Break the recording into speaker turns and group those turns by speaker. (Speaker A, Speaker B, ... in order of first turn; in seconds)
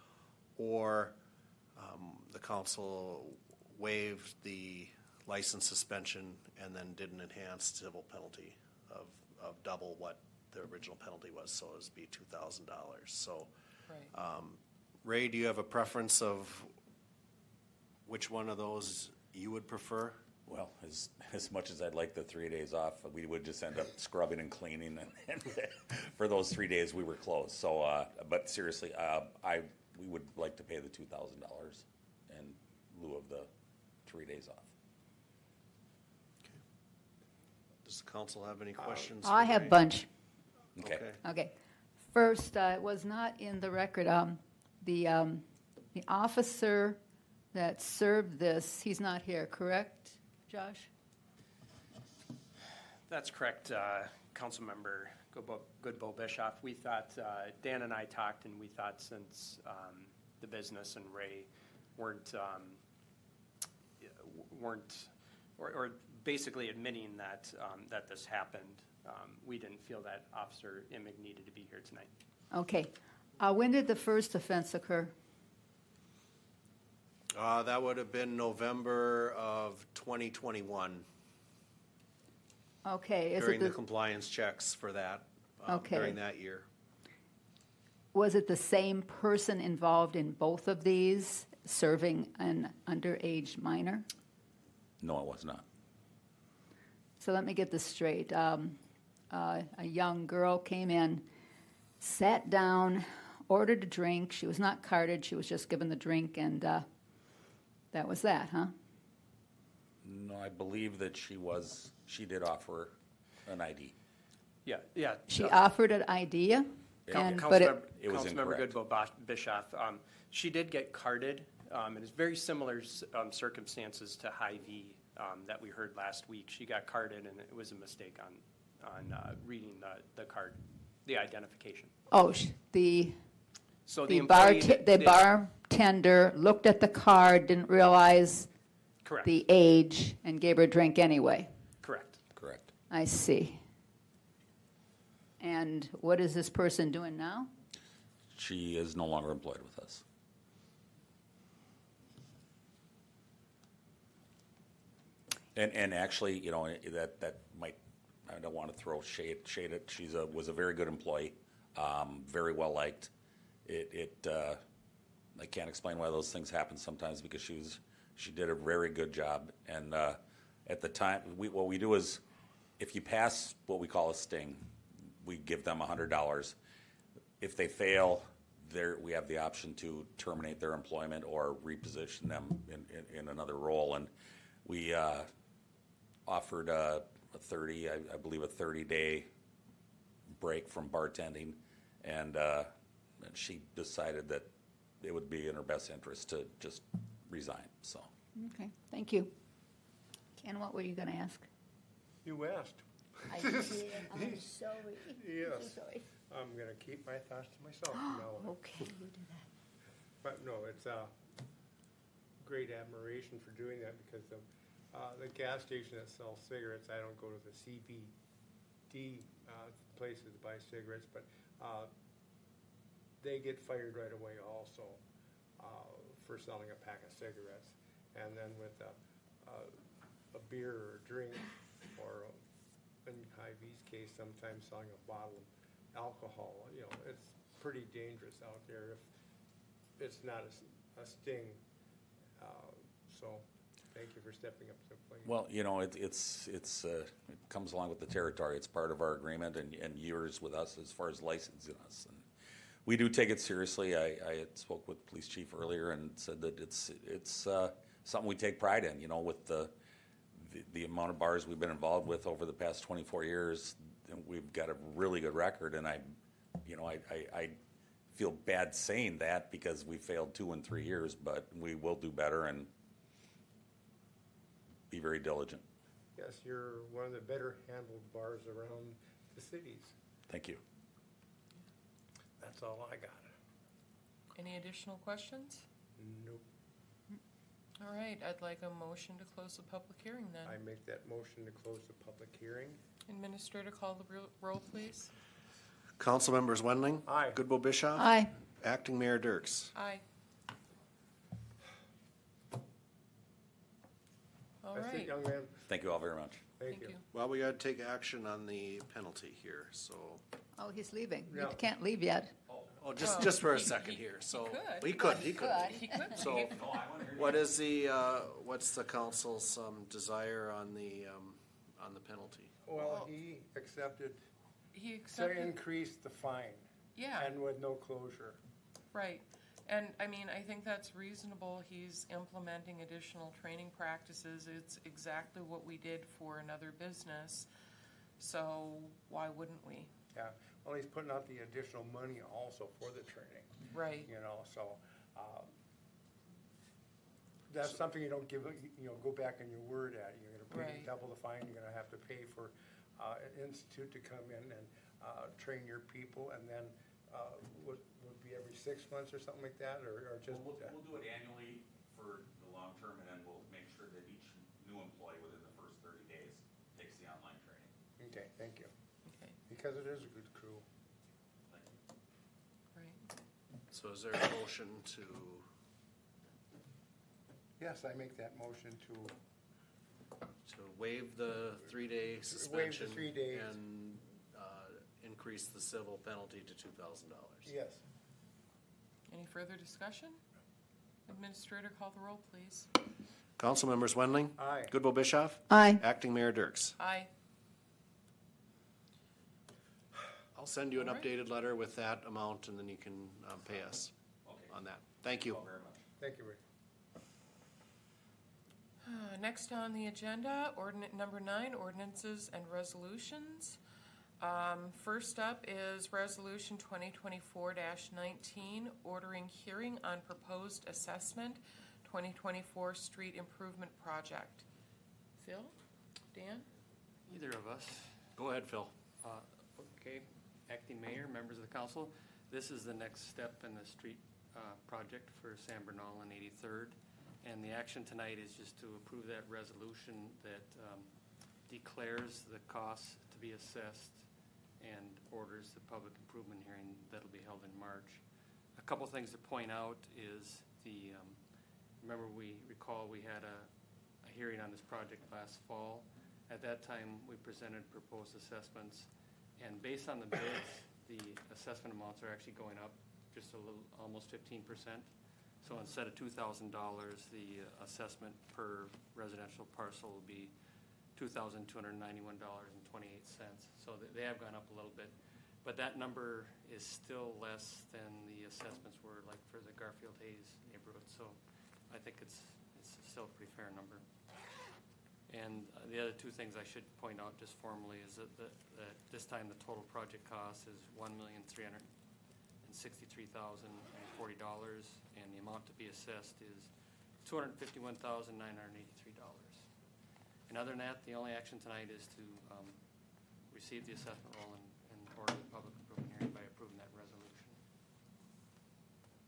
Speaker A: 0.6-1.2, 1.8-13.5, 14.1-16.7, 18.1-20.4, 37.8-39.8, 40.8-41.2, 77.3-81.0, 83.4-86.7, 296.0-299.7, 307.1-310.2, 312.8-316.6, 317.1-322.5, 373.7-375.4, 380.5-387.5, 393.4-396.8, 400.4-403.9, 404.5-405.4, 428.2-428.7
Speaker B: 20.5-33.5, 34.0-34.7, 40.8-41.0, 95.0-95.7, 110.0-112.9, 113.5-113.9, 117.1-118.8, 142.4-142.7, 148.3-150.0, 155.5-163.1, 163.7-164.6, 165.3-172.2, 172.8-174.7, 175.2-176.6, 177.4-184.1, 184.7-185.3, 186.3-189.3, 190.3-194.5, 195.0-198.1, 245.2-252.3, 252.8-259.7, 260.4-267.6, 268.1-272.7, 274.9-275.6, 280.3-280.6, 305.7-306.4, 312.5-312.7, 316.2-317.5, 360.3-367.7, 404.2-404.5, 405.3-405.8
Speaker C: 38.8-39.2, 202.2-204.4, 205.1-208.6, 210.2-211.1, 212.4-218.1, 218.9-221.9, 223.2-225.0, 225.6-229.8, 230.3-232.4, 233.1-239.1, 240.0-241.6, 242.4-245.3, 276.1-280.0, 282.4-283.3, 286.0-286.4, 290.4-292.8, 297.1-297.4, 304.7-305.6, 306.6-306.9, 311.3-311.6, 322.7-324.2, 325.1-328.4, 340.1-345.5, 347.5-360.8, 368.0-368.7, 369.5-370.7, 377.6-379.2, 382.3-383.6, 387.4-387.8, 394.4-394.7, 406.0-406.4
Speaker D: 39.2-40.1, 41.2-41.5, 42.1-47.0, 47.5-50.9, 72.5-75.2, 82.8-83.8, 85.7-86.2, 88.1-94.1, 97.2-101.3, 102.0-106.9, 107.9-108.7, 115.3-117.8, 132.1-133.3, 134.1-138.5, 139.2-141.5, 142.9-143.6, 145.4-147.5, 198.4-199.3, 200.4-201.5, 203.3-206.0, 207.9-209.4, 297.9-298.3, 310.6-312.3, 315.0-316.1, 395.5-395.8
Speaker E: 53.1-62.8, 64.0-72.1, 114.7-115.6, 117.1-131.9, 133.9-135.3, 139.0-139.3, 141.8-142.2
Speaker F: 284.4-285.7, 287.8-290.6, 293.1-295.1, 299.8-300.0, 304.6-305.1, 306.7-307.0, 313.0-316.7, 322.8-323.1, 324.7-325.5, 326.9-327.3, 328.9-337.5, 338.2-339.9, 343.7-344.1, 350.5-350.9, 369.1-369.4, 372.8-373.0, 389.1-390.2, 391.1-392.7, 396.8-397.1, 400.8-401.1, 408.8-413.6, 414.2-424.5, 425.2-425.6, 426.1-426.5
Speaker G: 427.1-428.1, 429.0-440.9, 441.4-444.1, 444.6-451.2, 451.8-453.5, 454.0-470.3, 470.9-483.8, 485.1-491.7, 492.4-496.5, 497.0-499.5, 500.3-502.6, 503.2-507.4